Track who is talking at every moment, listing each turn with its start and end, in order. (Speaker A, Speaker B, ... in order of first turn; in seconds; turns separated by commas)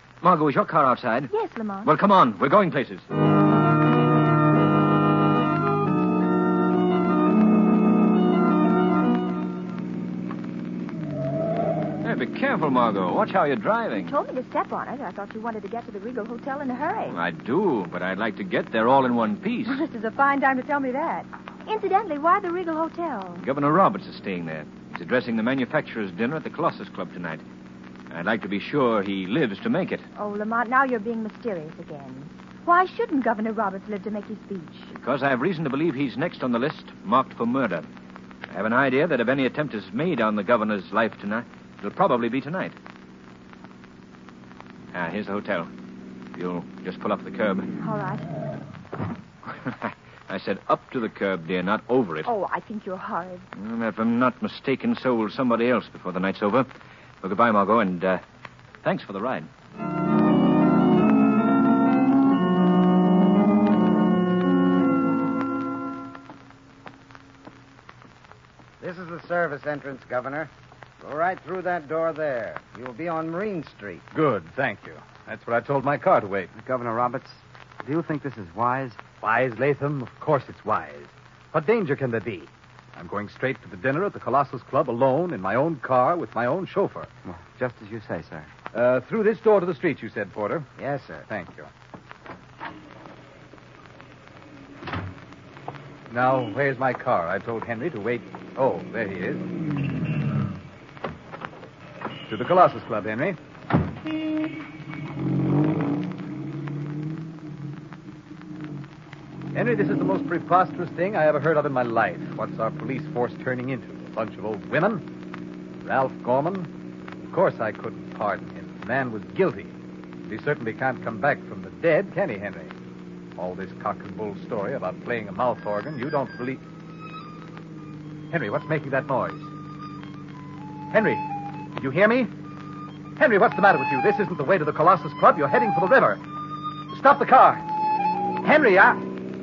Speaker A: 0.2-1.3, Speaker B: 1.3-1.9, Speaker A: 1.8-3.0, Speaker A: 12.0-14.1, Speaker B: 14.0-17.2, Speaker A: 17.1-19.8, Speaker B: 19.7-23.4, Speaker A: 23.4-27.4, Speaker A: 28.1-30.1, Speaker B: 30.1-34.9, Speaker A: 34.9-37.9, Speaker A: 38.5-42.7, Speaker A: 44.9-45.7, Speaker A: 46.3-47.7, Speaker B: 47.8-48.2, Speaker A: 49.5-52.3, Speaker B: 52.2-53.5, Speaker A: 53.5-56.7, Speaker A: 57.2-58.2, Speaker A: 58.8-59.5, Speaker C: 68.8-70.5, Speaker C: 71.0-74.0, Speaker D: 74.1-76.5, Speaker E: 76.5-79.0, Speaker D: 79.2-87.1, Speaker E: 87.2-88.5, Speaker D: 88.7-90.7, Speaker D: 91.3-91.7, Speaker D: 96.1-99.5, Speaker D: 102.3-103.4, Speaker D: 109.5-115.1, Speaker D: 115.8-116.7, Speaker D: 117.2-119.7, Speaker D: 120.2-122.7, Speaker D: 123.3-126.6, Speaker D: 128.3-129.5, Speaker D: 130.9-132.3, Speaker D: 133.2-136.2, Speaker D: 136.9-137.6, Speaker D: 138.4-139.0